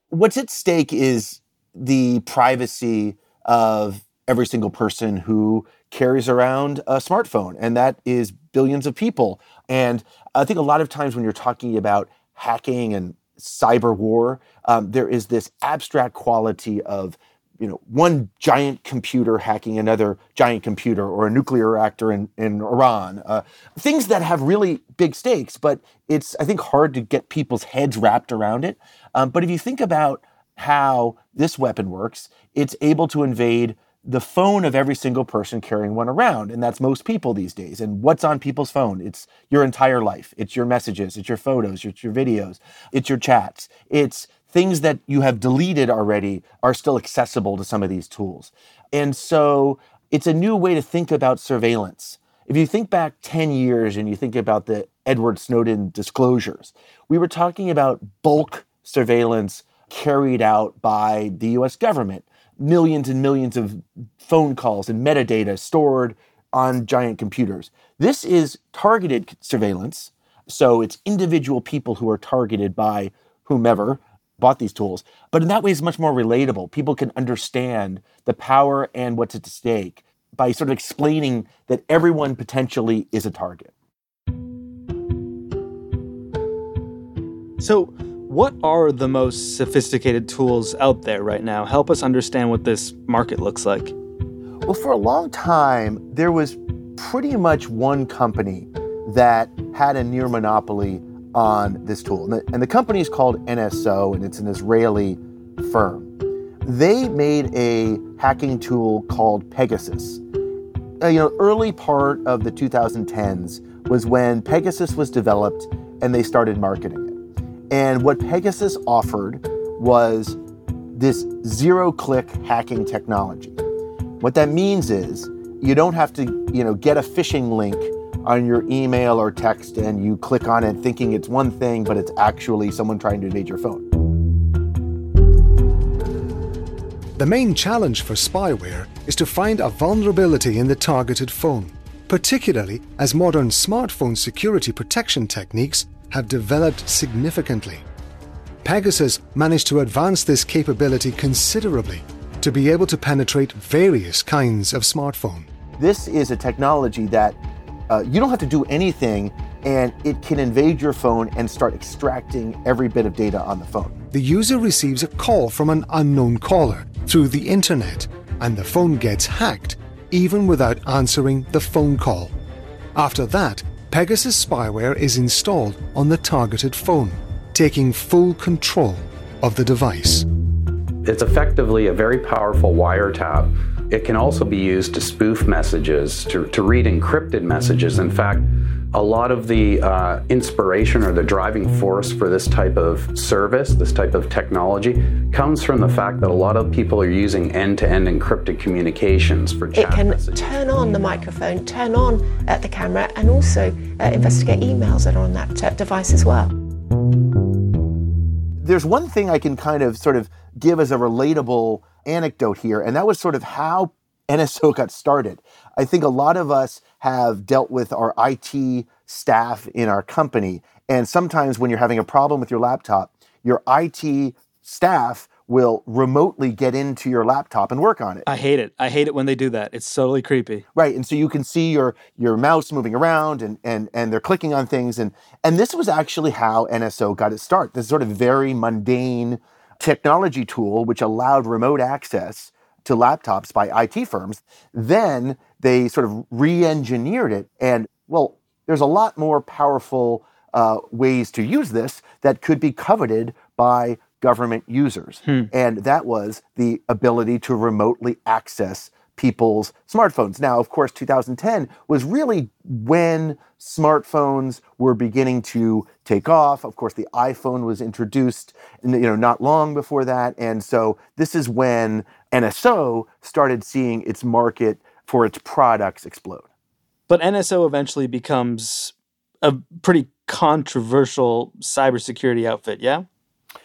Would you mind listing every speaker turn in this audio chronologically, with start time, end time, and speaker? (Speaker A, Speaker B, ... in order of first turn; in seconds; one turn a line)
Speaker A: 0.1-83.7
Speaker B: 87.6-94.0
Speaker A: 94.7-106.1
Speaker A: 106.6-110.2
Speaker A: 111.0-117.2
Speaker A: 117.7-120.4
Speaker A: 120.9-123.6
Speaker A: 124.2-133.9
Speaker C: 137.2-147.8
Speaker C: 148.6-155.5
Speaker A: 155.8-164.0
Speaker C: 164.1-172.3
Speaker C: 173.0-180.2
Speaker D: 181.0-200.4
Speaker E: 199.7-206.5
Speaker A: 208.6-228.2
Speaker B: 228.3-230.7
Speaker A: 230.7-276.5
Speaker B: 277.1-283.1